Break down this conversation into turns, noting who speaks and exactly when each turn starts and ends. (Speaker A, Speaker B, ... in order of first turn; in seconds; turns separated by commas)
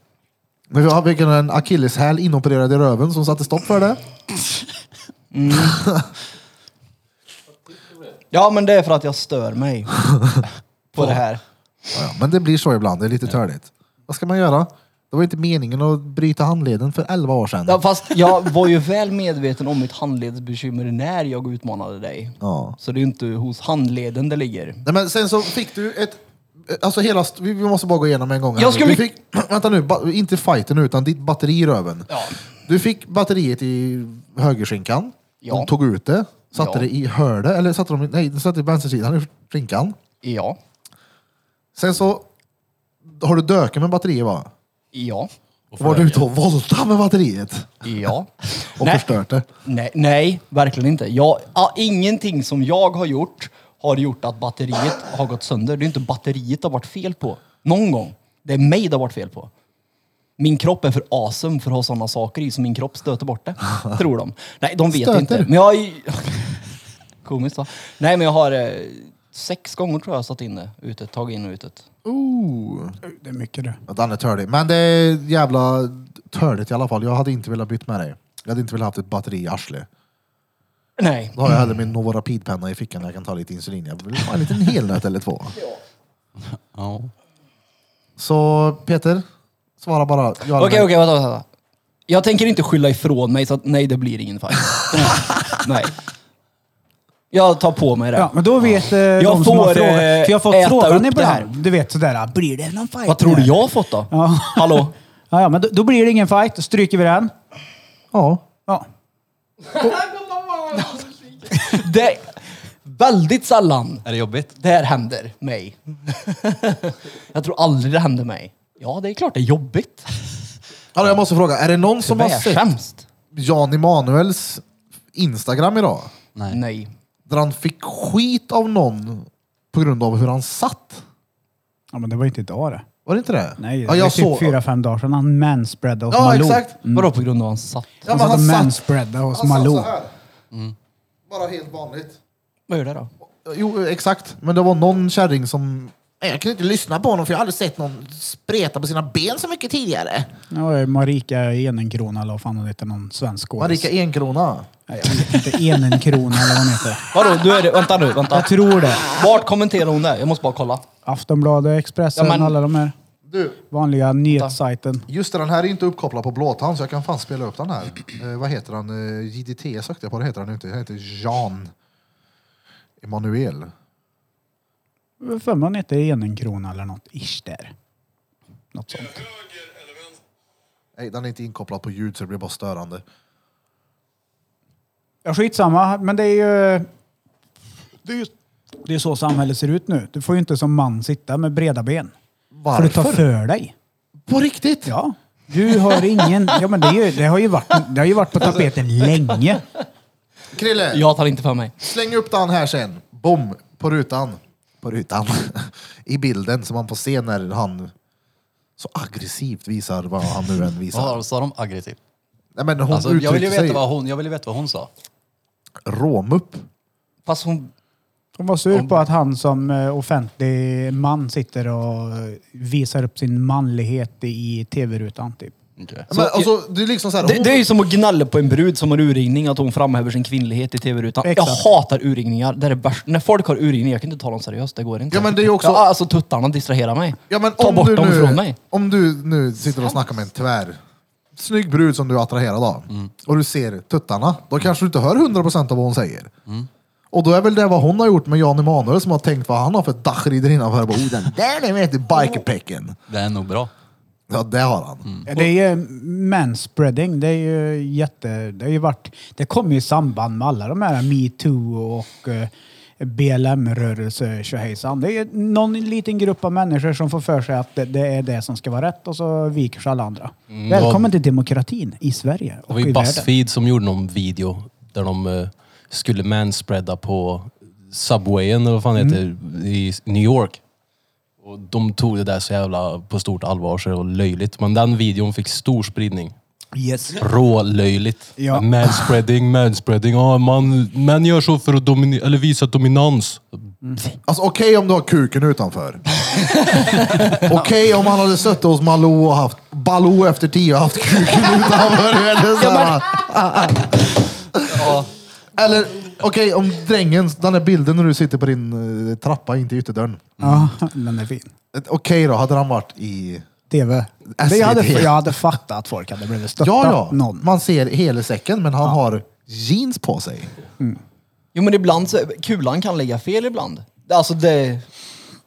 Speaker A: 0.7-4.0, Speaker B: 5.3-5.9, Speaker A: 5.6-6.1, Speaker B: 8.3-10.0, Speaker A: 10.1-10.4, Speaker B: 10.9-11.4, Speaker A: 11.9-17.8, Speaker B: 17.7-24.8, Speaker A: 22.4-22.8, Speaker A: 24.8-40.0, Speaker B: 28.6-29.1, Speaker B: 32.1-32.4, Speaker B: 35.4-35.7, Speaker B: 36.5-36.9, Speaker B: 40.2-40.6, Speaker A: 41.8-42.3, Speaker A: 43.1-44.5, Speaker B: 44.9-45.3, Speaker C: 45.7-46.3, Speaker A: 45.8-47.9, Speaker B: 47.8-59.5, Speaker A: 48.8-49.5, Speaker B: 60.4-66.5, Speaker A: 64.9-65.5, Speaker B: 67.2-71.8, Speaker A: 72.0-73.0, Speaker D: 73.1-73.8, Speaker A: 73.9-79.9, Speaker B: 81.0-81.4, Speaker A: 81.3-85.5, Speaker C: 86.7-87.1, Speaker A: 88.2-89.2, Speaker A: 89.8-90.9, Speaker B: 90.5-91.5, Speaker B: 92.1-95.9, Speaker B: 97.3-98.4, Speaker D: 98.2-107.3, Speaker B: 99.1-101.5, Speaker B: 103.1-104.9, Speaker A: 108.1-108.4, Speaker B: 110.7-114.0, Speaker C: 114.0-114.6, Speaker B: 114.6-120.1, Speaker A: 121.0-122.7, Speaker B: 122.0-123.1, Speaker A: 123.3-126.1, Speaker B: 126.5-126.9, Speaker A: 127.3-131.0, Speaker D: 131.9-132.8, Speaker A: 133.1-134.6, Speaker D: 133.6-137.1, Speaker A: 136.1-136.8, Speaker B: 136.9-138.1, Speaker A: 138.1-140.1, Speaker D: 138.1-139.9, Speaker A: 141.3-142.2, Speaker B: 142.7-143.1, Speaker A: 143.2-150.3, Speaker D: 150.5-153.9, Speaker A: 153.6-154.7, Speaker D: 154.9-157.1, Speaker B: 157.1-160.8, Speaker D: 158.3-159.1, Speaker D: 161.1-162.9, Speaker B: 162.2-162.6, Speaker A: 163.3-163.6, Speaker D: 163.7-165.1, Speaker B: 164.3-164.6, Speaker A: 165.1-171.7, Speaker A: 173.0-173.7, Speaker D: 175.2-177.7, Speaker D: 178.7-179.3, Speaker A: 181.0-183.0, Speaker D: 185.2-186.9, Speaker D: 188.0-188.3, Speaker D: 188.8-192.1, Speaker A: 192.5-193.3, Speaker D: 192.7-193.7, Speaker A: 194.3-195.0, Speaker D: 194.9-199.6, Speaker A: 200.5-201.1, Speaker B: 200.9-201.8, Speaker A: 201.8-207.9, Speaker A: 208.8-211.2, Speaker C: 210.9-212.0, Speaker A: 212.6-213.8, Speaker C: 212.9-214.9, Speaker A: 215.8-216.7, Speaker B: 217.3-217.7, Speaker D: 218.4-225.6, Speaker C: 218.7-219.0, Speaker C: 225.8-226.1, Speaker A: 226.1-227.6, Speaker B: 226.1-226.5, Speaker B: 227.2-238.6, Speaker D: 231.2-231.7, Speaker A: 235.1-235.8, Speaker A: 237.3-240.8, Speaker A: 241.4-246.3, Speaker A: 247.1-253.0, Speaker C: 253.1-253.7, Speaker A: 254.3-255.1, Speaker D: 255.3-273.3, Speaker E: 270.5-271.1, Speaker E: 272.7-280.6, Speaker E: 281.4-286.4, Speaker D: 286.8-287.2, Speaker E: 287.2-293.6, Speaker D: 288.4-289.1, Speaker A: 294.3-296.0, Speaker B: 296.5-297.4, Speaker A: 297.3-305.0, Speaker B: 302.6-303.0, Speaker A: 305.6-310.3, Speaker C: 310.4-310.7, Speaker D: 310.4-311.5, Speaker A: 311.7-313.5, Speaker D: 313.7-317.5, Speaker A: 314.3-315.4, Speaker A: 316.6-320.5, Speaker B: 321.5-324.9